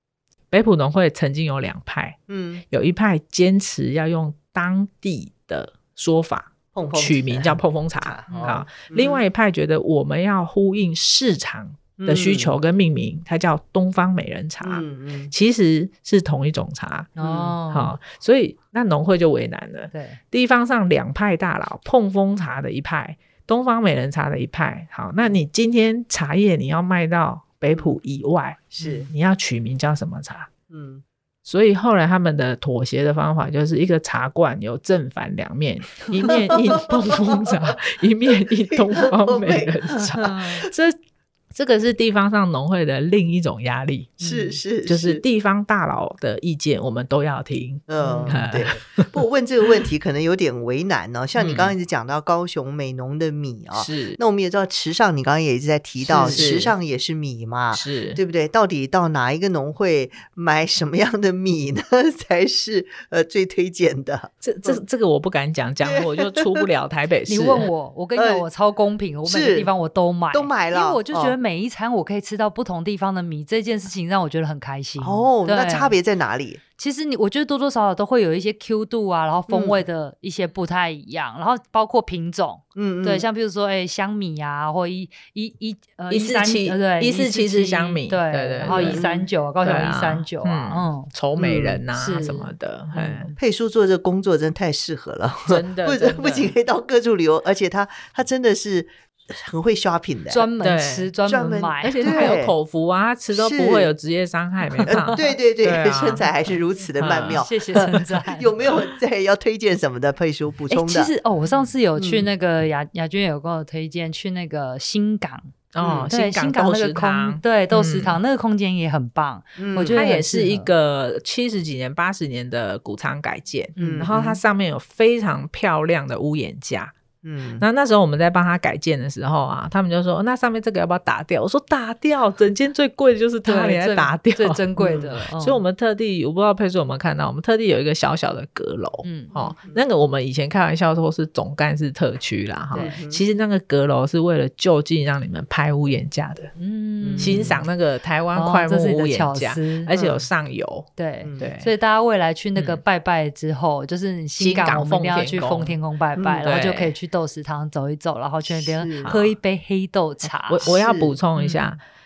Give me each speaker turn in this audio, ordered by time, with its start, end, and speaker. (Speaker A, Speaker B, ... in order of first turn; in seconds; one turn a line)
Speaker A: 0.5-2.2
Speaker B: 2.3-2.6
Speaker A: 2.7-17.1
Speaker B: 6.7-9.2
Speaker C: 8.3-8.6
Speaker B: 12.0-12.6
Speaker B: 14.6-15.3
Speaker C: 17.2-17.9
Speaker B: 17.2-17.5
Speaker A: 17.7-30.5
Speaker C: 19.9-20.2
Speaker B: 28.7-29.1
Speaker B: 30.7-31.0
Speaker A: 31.4-41.0
Speaker B: 36.2-37.5
Speaker B: 38.7-40.7
Speaker C: 40.1-40.6
Speaker A: 41.5-44.2
Speaker B: 44.2-45.2
Speaker C: 44.2-44.6
Speaker A: 44.9-49.2
Speaker B: 47.9-64.8
Speaker C: 48.0-48.5
Speaker A: 51.4-51.8
Speaker A: 53.7-54.2
Speaker A: 56.0-56.7
Speaker C: 56.2-56.6
Speaker A: 57.7-58.2
Speaker A: 64.4-67.7
Speaker B: 65.8-66.7
Speaker C: 67.3-76.0
Speaker B: 68.2-68.4
Speaker B: 69.3-69.7
Speaker B: 70.3-71.4
Speaker B: 75.0-76.6
Speaker C: 76.8-93.4
Speaker B: 79.5-79.8
Speaker B: 82.8-83.3
Speaker A: 86.1-89.0
Speaker B: 88.7-89.3
Speaker A: 89.6-93.3
Speaker B: 91.4-91.8
Speaker B: 93.4-100.5
Speaker A: 95.5-96.5
Speaker C: 100.3-102.3
Speaker A: 100.6-101.1
Speaker B: 101.3-102.5
Speaker A: 101.8-106.3
Speaker B: 103.3-103.9
Speaker C: 104.8-105.2
Speaker B: 104.9-111.1
Speaker A: 107.0-108.0
Speaker C: 107.2-108.5
Speaker C: 110.7-115.5
Speaker B: 112.0-112.3
Speaker A: 115.7-118.2
Speaker B: 115.8-116.1
Speaker C: 116.1-120.7
Speaker B: 119.6-120.0
Speaker A: 119.8-126.9
Speaker B: 123.8-124.4
Speaker B: 127.2-127.7
Speaker A: 127.6-146.5
Speaker C: 133.4-135.6
Speaker B: 134.8-135.1
Speaker C: 139.0-139.3
Speaker B: 139.4-139.8
Speaker B: 142.7-143.2
Speaker C: 146.6-147.6
Speaker B: 147.0-147.6
Speaker A: 147.2-151.7
Speaker C: 148.3-149.9
Speaker B: 149.9-150.3
Speaker C: 151.0-160.8
Speaker B: 151.2-151.5
Speaker A: 152.6-152.8
Speaker A: 154.4-155.8
Speaker A: 156.4-156.9
Speaker B: 158.5-159.3
Speaker A: 159.0-159.3
Speaker A: 160.2-161.8
Speaker B: 160.6-161.2
Speaker C: 161.3-161.8